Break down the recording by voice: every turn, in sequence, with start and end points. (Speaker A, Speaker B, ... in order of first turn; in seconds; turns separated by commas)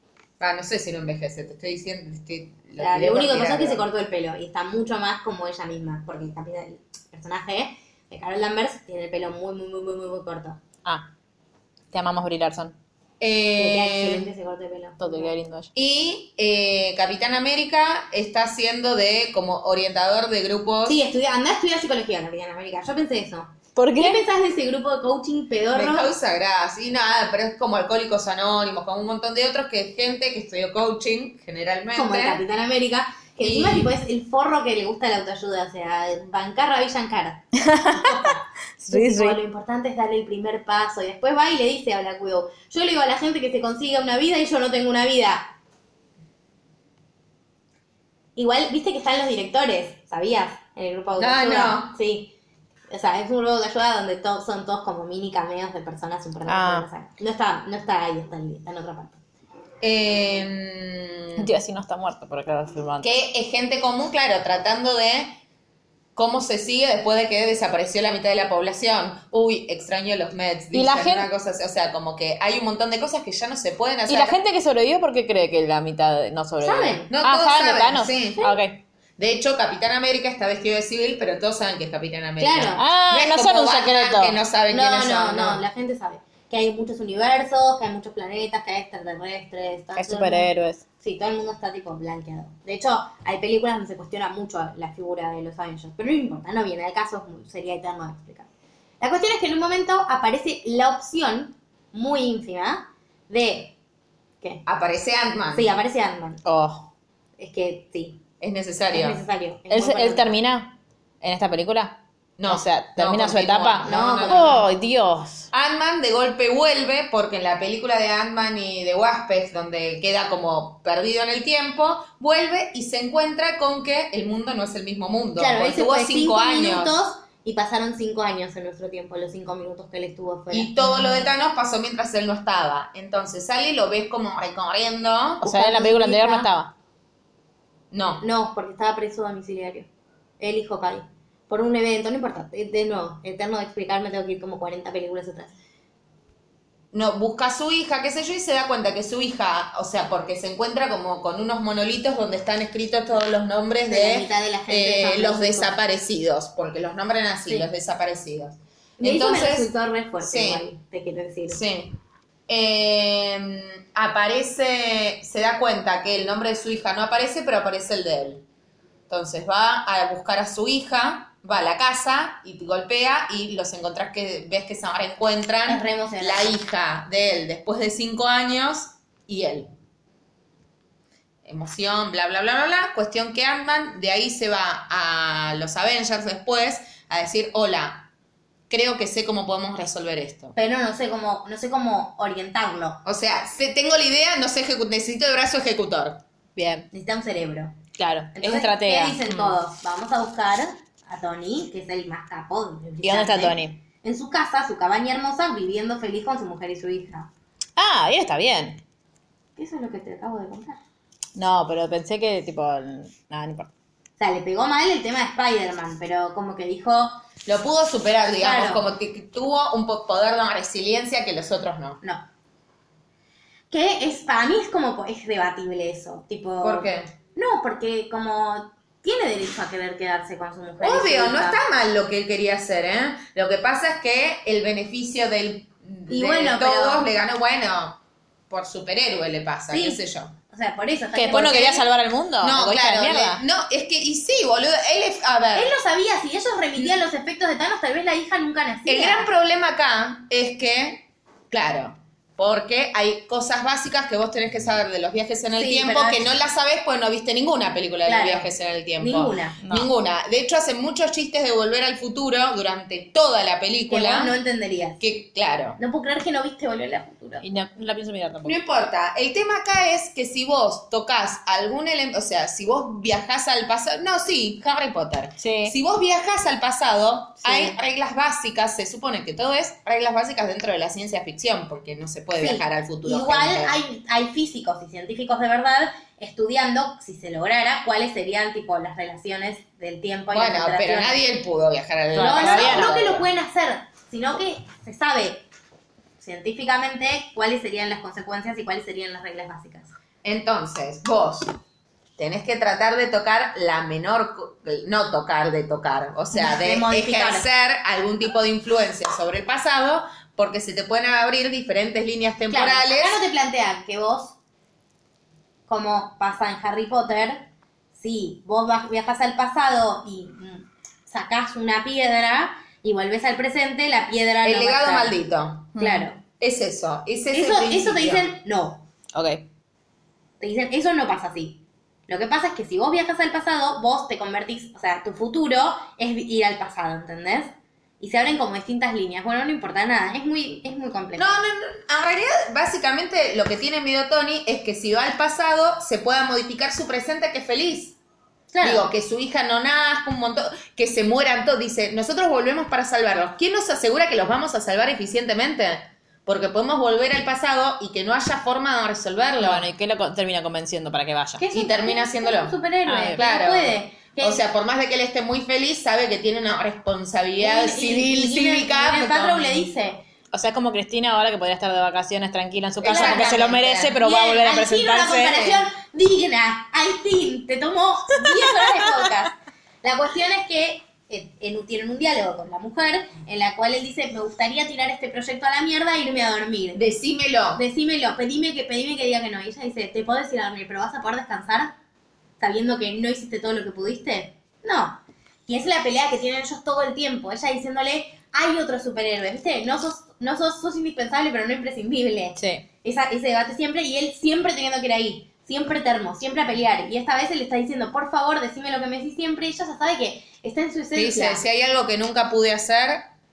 Speaker A: 0.4-3.9, Speaker B: 2.8-10.6, Speaker C: 10.8-11.1, Speaker C: 11.9-12.8, Speaker A: 13.2-14.3, Speaker B: 13.6-15.3, Speaker C: 15.0-15.7, Speaker A: 15.7-21.0, Speaker B: 20.9-26.1, Speaker C: 23.8-24.2, Speaker A: 25.7-32.4, Speaker B: 31.9-45.5, Speaker A: 33.4-33.9, Speaker C: 37.5-39.4, Speaker B: 48.4-52.3, Speaker A: 51.2-52.0, Speaker B: 52.9-59.2, Speaker C: 56.5-56.9, Speaker A: 59.8-61.5, Speaker C: 61.4-63.1, Speaker A: 63.0-65.4, Speaker A: 66.2-74.4, Speaker C: 70.7-71.3, Speaker C: 74.1-78.8, Speaker B: 76.6-77.1, Speaker A: 77.1-78.5, Speaker A: 79.2-85.6, Speaker B: 82.4-82.8, Speaker C: 82.8-84.4, Speaker B: 84.7-98.5, Speaker C: 90.0-90.8, Speaker B: 99.0-103.8, Speaker A: 104.7-105.8, Speaker B: 105.5-106.4, Speaker C: 106.4-106.9, Speaker B: 107.4-108.2, Speaker A: 108.4-109.2, Speaker B: 108.9-110.4, Speaker C: 109.7-115.5, Speaker A: 112.4-114.6, Speaker B: 113.8-114.7, Speaker A: 115.5-127.0, Speaker B: 125.4-131.1, Speaker A: 130.5-135.4, Speaker C: 135.4-136.7, Speaker B: 135.4-136.5, Speaker A: 137.9-138.2, Speaker B: 138.2-139.9, Speaker B: 140.4-145.5, Speaker A: 146.9-160.6, Speaker B: 153.9-155.7, Speaker B: 159.0-161.6, Speaker A: 161.5-168.4, Speaker A: 169.1-179.7, Speaker B: 175.7-176.6, Speaker A: 181.4-188.1, Speaker A: 188.7-190.5, Speaker B: 190.5-193.0, Speaker A: 193.0-196.2, Speaker C: 196.6-196.9, Speaker B: 196.9-197.7, Speaker C: 198.0-199.5, Speaker B: 198.3-207.3, Speaker C: 203.0-203.8, Speaker C: 207.8-208.8, Speaker B: 209.6-210.8, Speaker C: 211.3-213.7, Speaker B: 214.2-217.2, Speaker A: 217.4-222.0, Speaker B: 218.4-218.8, Speaker B: 223.7-231.6, Speaker A: 226.6-227.1, Speaker A: 230.8-238.0, Speaker B: 236.1-237.1, Speaker A: 238.5-240.3, Speaker B: 239.7-241.8, Speaker C: 241.1-243.4, Speaker A: 242.4-245.8, Speaker B: 245.5-249.3, Speaker A: 248.9-264.3, Speaker B: 255.5-256.3, Speaker B: 258.1-259.6, Speaker C: 259.6-259.9, Speaker B: 263.9-265.0, Speaker A: 265.0-265.8, Speaker B: 265.8-267.4, Speaker C: 267.4-268.6, Speaker A: 268.4-283.8, Speaker C: 275.4-275.8, Speaker C: 277.4-277.7, Speaker B: 282.4-291.2, Speaker A: 290.3-293.2, Speaker C: 292.1-293.0, Speaker B: 292.1-295.4, Speaker B: 296.2-299.9, Speaker A: 300.2-301.5, Speaker A: 302.2-313.2, Speaker B: 306.3-307.5, Speaker B: 312.5-314.3, Speaker B: 315.7-325.2, Speaker A: 324.4-325.8, Speaker C: 325.8-326.1, Speaker B: 325.8-326.2, Speaker A: 326.4-328.3, Speaker B: 327.3-328.9, Speaker C: 329.1-329.4, Speaker B: 330.4-341.3, Speaker A: 341.1-348.0, Speaker B: 348.5-348.9, Speaker A: 348.6-359.7, Speaker C: 359.4-361.4, Speaker B: 361.4-364.4, Speaker A: 361.5-362.6, Speaker C: 362.9-363.2, Speaker A: 363.1-369.7, Speaker B: 367.4-370.0, Speaker C: 370.3-375.5, Speaker A: 372.8-374.0, Speaker B: 372.8-386.8, Speaker C: 378.3-378.7, Speaker A: 386.7-387.6, Speaker B: 387.5-391.7, Speaker B: 392.4-411.4, Speaker C: 402.4-402.6, Speaker A: 410.9-413.1